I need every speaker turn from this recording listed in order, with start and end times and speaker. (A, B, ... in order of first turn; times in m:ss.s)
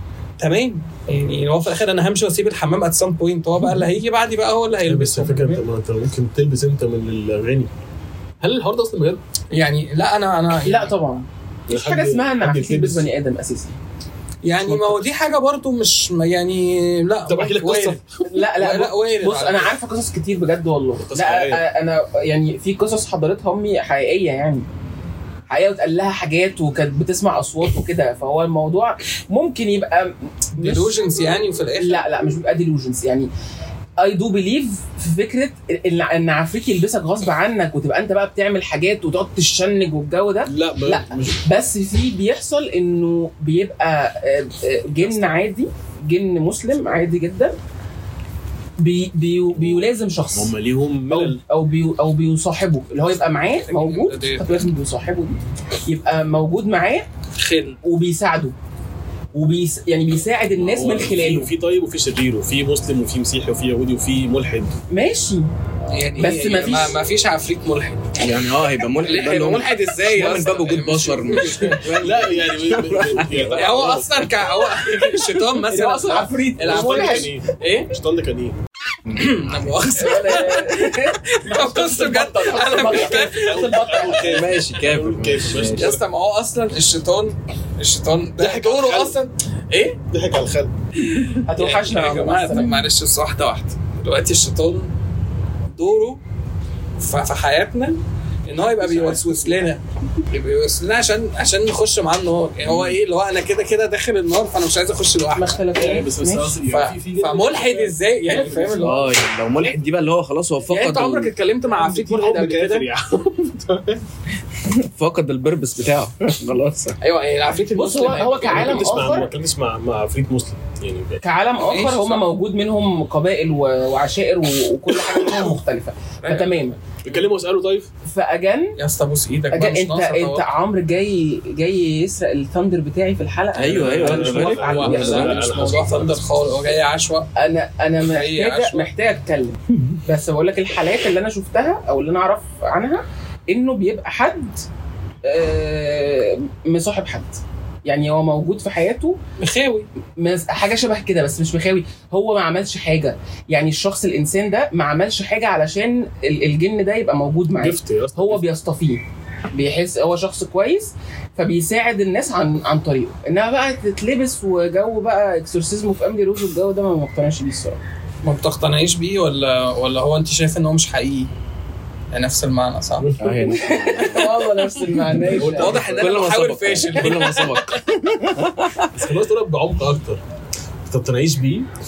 0:00.4-0:05.6 A
0:04.8-0:07.7 B
0:08.4-0:09.2 B
0:09.5-0:11.0 A
0:10.6-0:13.8 C
0:11.7-0:13.1 B
0:14.4-0:19.7 A
0:14.6-0:15.0 B
0:17.3-0:18.2 B
0:18.2-0:24.7 C
0:21.0-0:21.6 B
0:25.5-0:30.9 C
0:30.6-0:32.1 A
0:31.8-0:33.3 C
0:34.0-0:47.6 C
0:40.5-0:41.4 B
0:45.0-0:45.4 A
0:48.8-0:50.6 C
0:49.6-0:51.4 B
0:51.1-0:57.1 C
0:53.5-0:54.6 A
0:57.4-0:57.8 A
0:57.8-0:58.6 C
0:59.3-1:01.5 C
1:00.6-1:04.8 B
1:04.9-1:05.5 C
1:05.9-1:08.0 A
1:06.2-1:07.0 C
1:08.2-1:13.6 D
1:09.0-1:12.0 A
1:12.0-1:14.2 B
1:13.5-1:17.9 A
1:15.7-1:17.3 C
1:16.6-1:18.6 B
1:19.1-1:23.8 A
1:19.9-1:24.5 C
1:22.9-1:26.0 B
1:24.2-1:25.9 D
1:25.7-1:30.0 A
1:28.4-1:29.2 B
1:30.1-1:30.7 B
1:31.1-1:34.9 A
1:31.4-1:32.9 C
1:35.8-1:36.2 A
1:37.0-1:45.7 A
1:38.8-1:39.3 B
1:42.7-1:42.9 D
1:45.4-1:46.6 C
1:45.8-1:48.8 B
1:46.7-1:49.2 A
1:48.3-1:49.0 C
1:48.8-1:51.3 D
1:50.7-1:52.9 A
1:51.7-1:54.0 B
1:54.6-1:57.0 D
1:57.0-1:59.0 A
1:57.7-1:59.3 C
1:58.2-2:01.2 B
2:01.2-2:06.8 C
2:01.6-2:02.2 A
2:06.2-2:07.2 A
2:07.0-2:07.9 B
2:08.0-2:08.8 C
2:08.8-2:10.5 A
2:09.5-2:15.4 C
2:13.5-2:14.9 D
2:13.7-2:16.2 B
2:13.8-2:17.3 A
2:17.4-2:24.6 C
2:18.0-2:18.9 A
2:25.2-2:29.2 C
2:29.4-2:29.9 A
2:30.2-2:47.8 C
2:37.6-2:38.5 B
2:48.2-2:51.3 A
2:52.1-2:53.1 A
2:53.0-2:53.6 B
2:53.2-2:58.9 D
2:53.4-2:55.8 C
2:55.4-2:56.2 B
2:55.5-2:57.8 A
2:58.9-3:00.2 B
3:00.9-3:01.7 B